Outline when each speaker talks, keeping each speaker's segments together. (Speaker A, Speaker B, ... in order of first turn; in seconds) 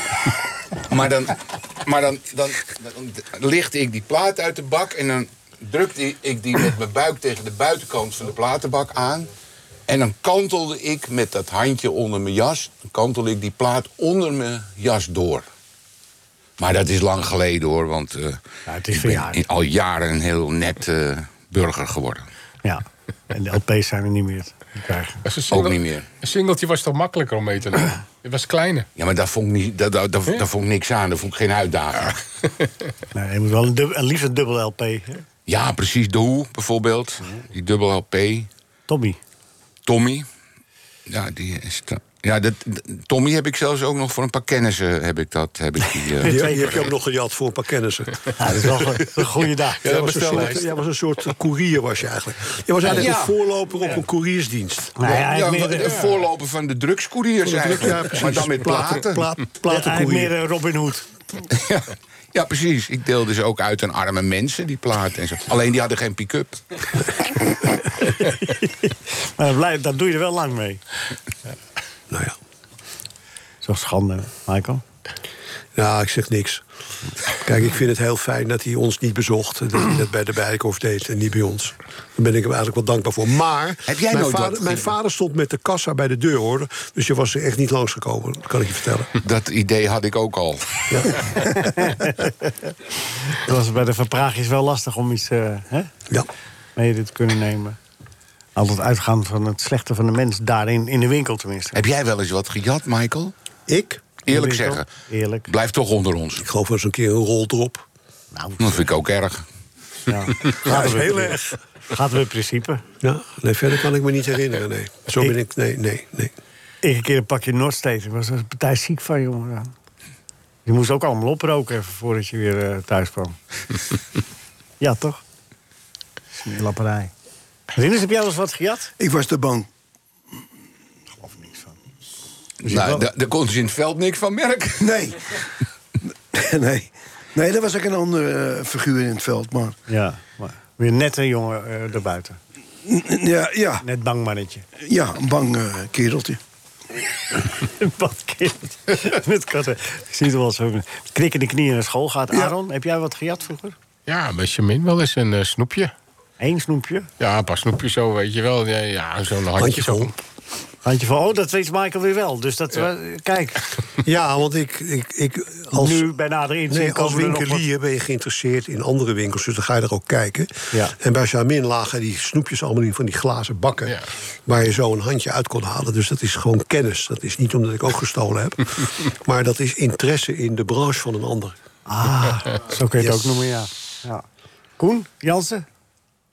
Speaker A: 0.9-9.3, 9.9-15.4, 16.6-18.4, 18.9-22.3, 25.5-26.1, 28.9-32.2, 35.5-38.5, 39.8-40.3, 41.1-46.8, 49.9-50.5, 52.8-53.4, 55.0-59.2, 61.5-66.8, 83.9-84.9, 89.2-91.3, 101.7-103.3, 104.2-104.8, 105.5-106.4, 108.6-109.4, 132.6-135.0
Speaker B: 18.7-19.4, 22.6-25.2, 33.1-35.2, 38.9-39.2, 46.2-46.7, 48.4-49.8, 55.0-56.1, 59.7-61.0, 68.0-70.8, 73.6-74.8, 91.5-92.7, 93.3-95.9, 96.8-97.8, 98.5-101.8, 104.3-105.5, 108.3-108.8, 110.1-111.4, 111.9-112.8, 116.8-119.7, 120.7-123.3, 124.8-125.2, 126.4-127.1, 127.7-128.9, 131.2-131.8, 132.6-133.1, 139.9-142.4, 143.8-144.6, 147.6-153.7, 156.4-157.1, 160.8-163.7, 165.7-167.6, 181.9-184.2, 184.8-185.6
Speaker C: 25.2-28.9, 49.9-50.6, 154.1-155.9, 157.2-160.1
Speaker D: 46.2-48.7, 49.8-55.0, 57.4-60.3, 72.1-72.3, 75.7-76.6, 77.4-89.1, 90.9-91.2, 103.7-104.0, 106.4-107.8, 110.6-111.6, 113.0-116.3, 159.6-160.1, 164.0-166.1, 166.7-181.5, 182.9-183.3
Speaker E: 129.0-129.7, 134.8-135.2, 136.3-139.8, 142.8-143.8, 144.8-146.4